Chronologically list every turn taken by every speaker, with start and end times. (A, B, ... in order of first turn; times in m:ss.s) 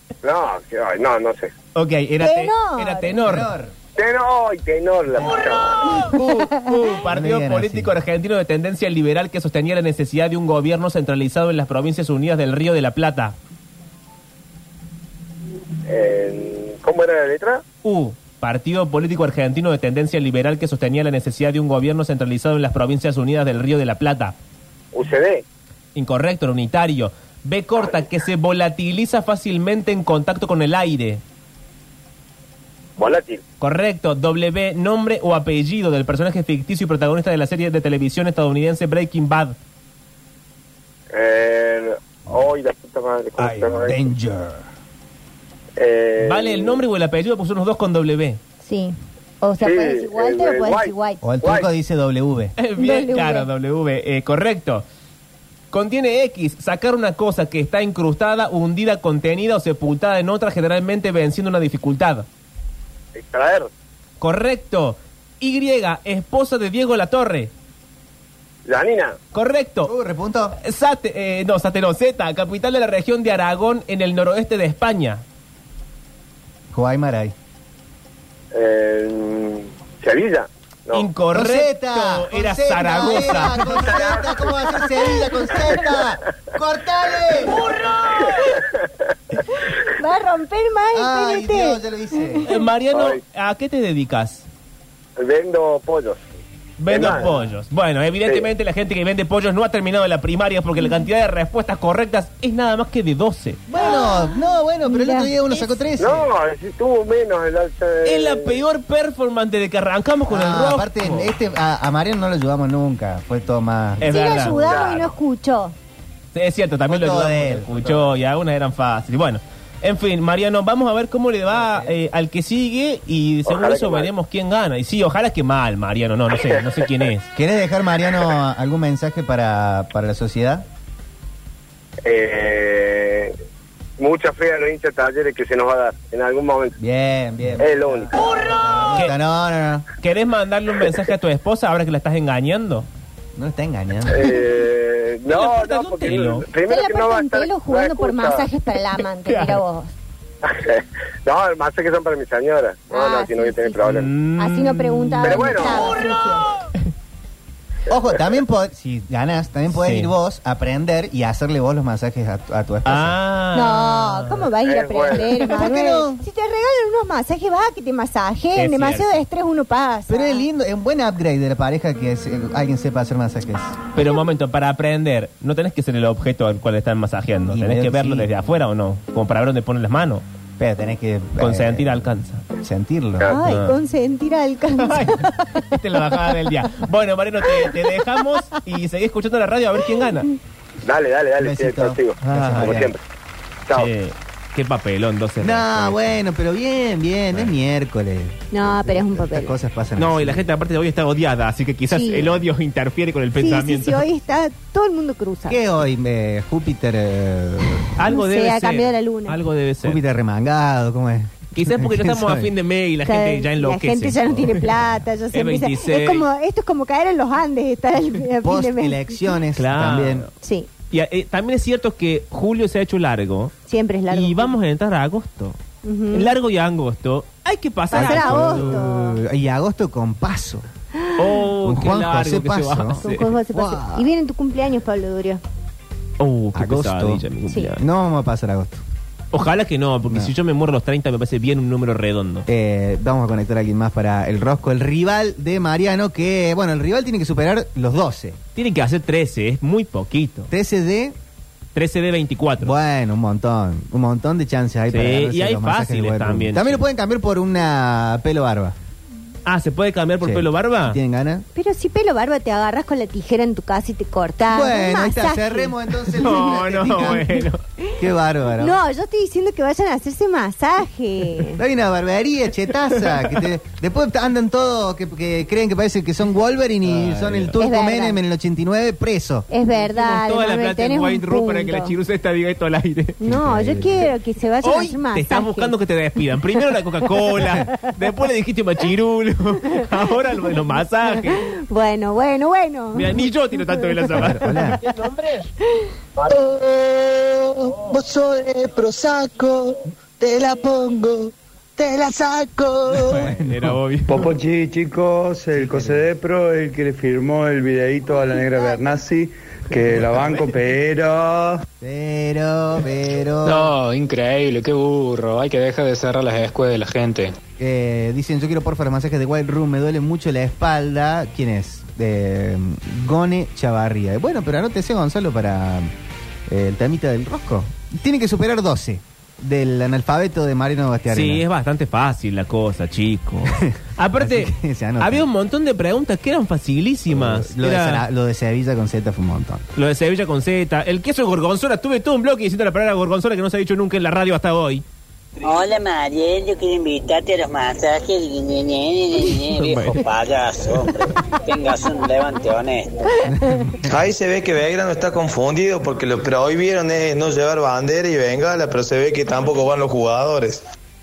0:00.2-0:01.5 A
0:01.7-0:03.5 B
0:02.2-0:03.1 C
0:03.2-0:03.7 D
0:04.0-0:05.9 A
0:06.0-0:13.3 B
0:07.1-0:07.9 D
0:15.8-0:17.6 A
0:17.8-0:24.3 B
0:24.9-0:25.4 A
0:25.9-0:31.2 B
0:33.0-0:33.4 A
0:33.6-0:39.5 B
0:41.1-0:44.0 A
0:43.4-0:44.6 D
0:45.8-0:46.8 A
0:46.2-0:48.4 B
0:48.6-0:51.2 C
0:49.6-0:50.9 A
0:51.2-0:52.5 D
0:52.6-0:54.8 B
0:52.8-0:53.5 C
0:55.7-1:02.3 B
1:03.2-1:03.7 A
1:04.2-1:07.5 B
1:08.6-1:09.2 A
1:09.3-1:09.9 B
1:09.8-1:10.6 D
1:10.6-1:15.2 B
1:16.7-1:17.3 D
1:18.5-1:21.0 A
1:20.9-1:24.0 B
1:21.3-1:27.6 D
1:23.8-1:24.2 A
1:28.2-1:28.7 A
1:29.8-1:31.8 C
1:30.9-1:32.5 D
1:32.4-1:34.5 B
1:32.9-1:33.2 A
1:35.2-1:36.2 A
1:36.8-1:43.6 B
1:36.9-1:37.3 A
1:43.7-1:46.3 D
1:43.8-1:45.3 C
1:45.5-1:45.8 B
1:46.0-1:48.6 A
1:48.0-1:51.3 B
1:50.3-1:54.6 D
1:54.0-1:54.9 B
1:54.0-1:55.7 C
1:54.6-1:55.1 A
1:56.3-2:07.3 B
1:56.9-1:58.1 D
2:01.6-2:01.9 D
2:03.5-2:04.1 A
2:07.3-2:10.6 D
2:12.0-2:13.3 A
2:14.0-2:16.8 A
2:16.8-2:19.8 D
2:17.6-2:18.1 A
2:20.0-2:22.9 B
2:23.4-2:24.4 D
2:24.1-2:28.4 A
2:25.3-2:26.5 B
2:26.7-2:29.9 C
2:29.3-2:29.6 B
2:30.4-2:34.1 A
2:32.9-2:33.9 C
2:33.8-2:35.6 B
2:34.4-2:36.5 C
2:35.2-2:35.8 A
2:37.9-2:43.2 D
2:39.7-2:40.1 B
2:42.8-2:44.5 B
2:43.5-2:50.4 C
2:44.6-2:45.3 A
2:45.4-2:46.2 D
2:48.5-2:49.2 B
2:50.1-2:53.7 D
2:53.9-3:00.2 B
2:57.5-2:58.3 D
3:00.6-3:03.3 D
3:01.4-3:02.4 B
3:03.2-3:05.6 C
3:03.4-3:03.8 B
3:04.8-3:10.3 B
3:10.8-3:13.0 A
3:11.4-3:12.9 D
3:12.2-3:12.8 B
3:13.7-3:16.2 B
3:15.4-3:20.4 D
3:18.5-3:19.5 C
3:20.0-3:24.0 B
3:21.9-3:22.3 C
3:23.4-3:25.6 C
3:25.5-3:27.9 D
3:28.0-3:30.0 B
3:28.1-3:29.4 C
3:29.8-3:32.5 D
3:31.5-3:34.6 B
3:33.0-3:39.2 C
3:35.3-3:36.2 B
3:38.4-3:40.3 D
3:39.6-3:40.3 B
3:40.4-3:40.7 C
3:40.9-3:43.5 B
3:43.6-3:44.6 C
3:44.1-3:45.6 B
3:45.8-3:46.3 C
3:46.1-3:48.8 B
3:47.9-3:49.2 C
3:47.9-3:50.6 D
3:51.2-3:53.3 B
3:51.6-3:54.1 D
3:53.0-3:55.4 C
3:56.2-3:57.8 B
3:56.5-3:57.2 D
3:57.8-3:58.8 D
3:59.3-4:02.4 B
4:02.5-4:08.4 D
4:08.6-4:10.5 B
4:10.5-4:11.1 D
4:11.7-4:12.7 B
4:12.6-4:18.7 D
4:14.9-4:16.8 B
4:19.4-4:21.0 B
4:20.2-4:21.4 D
4:21.5-4:25.7 C
4:24.5-4:27.3 D
4:26.2-4:27.6 B
4:27.0-4:27.2 C
4:28.0-4:28.8 D
4:28.6-4:31.6 C
4:31.5-4:39.5 D
4:33.0-4:33.4 B
4:36.8-4:37.5 B
4:37.6-4:38.2 C
4:39.5-4:41.9 C
4:39.7-4:43.2 B
4:43.2-4:45.7 C
4:43.2-4:44.1 D
4:44.6-4:51.5 B
4:49.7-4:50.0 C
4:51.2-4:53.1 C
4:52.9-4:55.5 B
4:54.1-4:54.8 D
4:56.3-5:03.2 E
5:02.9-5:04.2 B
5:03.0-5:03.7 D
5:04.1-5:11.6 F
5:05.5-5:06.0 D
5:11.8-5:13.7 D
5:13.4-5:17.3 G
5:17.6-5:25.9 D
5:26.5-5:31.4 D
5:31.1-5:38.0 B
5:33.6-5:35.3 D
5:37.1-5:39.6 D
5:39.8-5:44.8 B
5:45.4-5:52.9 H
5:49.5-5:50.0 B
5:53.2-5:53.6 C
5:53.3-5:53.9 D
5:53.8-6:00.6 I